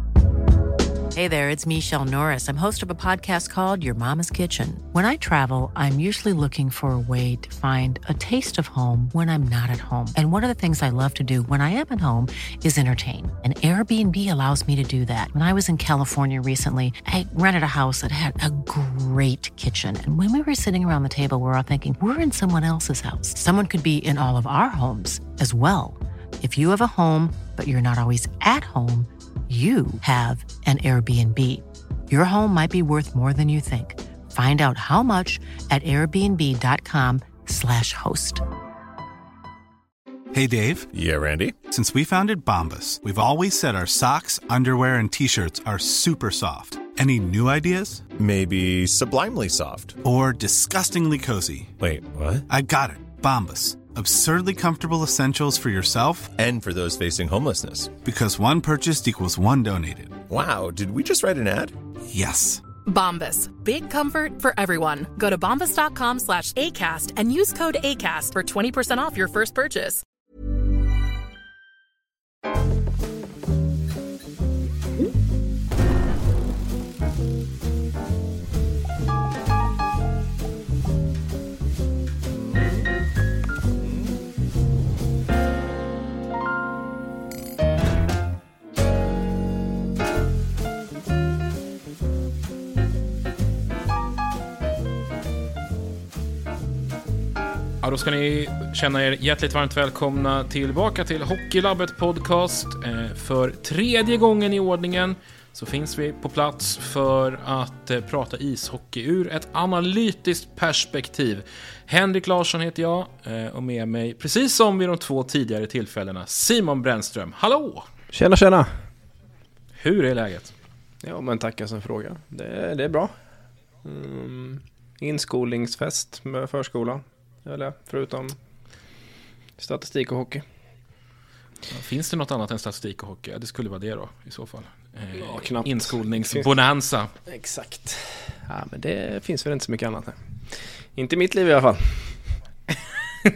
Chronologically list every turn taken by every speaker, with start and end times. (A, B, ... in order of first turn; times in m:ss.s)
0:01.1-0:38.4 A
0:40.3-0:40.9 B
0:40.9-0:41.6 C
0:41.6-0:48.0 B
0:48.2-0:50.0 C
0:50.0-0:51.8 B
0:51.8-0:52.4 C
0:52.5-0:56.4 B
0:56.4-0:58.0 C
0:58.0-1:00.2 B
1:00.3-1:01.8 C
1:02.1-1:02.6 B
1:02.8-1:10.0 D
1:37.8-1:57.9 E
1:58.1-1:58.7 F
1:59.8-2:00.5 E
2:01.0-2:03.1 F
2:03.8-2:08.4 F
2:09.6-2:10.4 F
2:11.7-2:17.1 E
2:15.1-2:16.5 F
2:17.3-2:22.2 F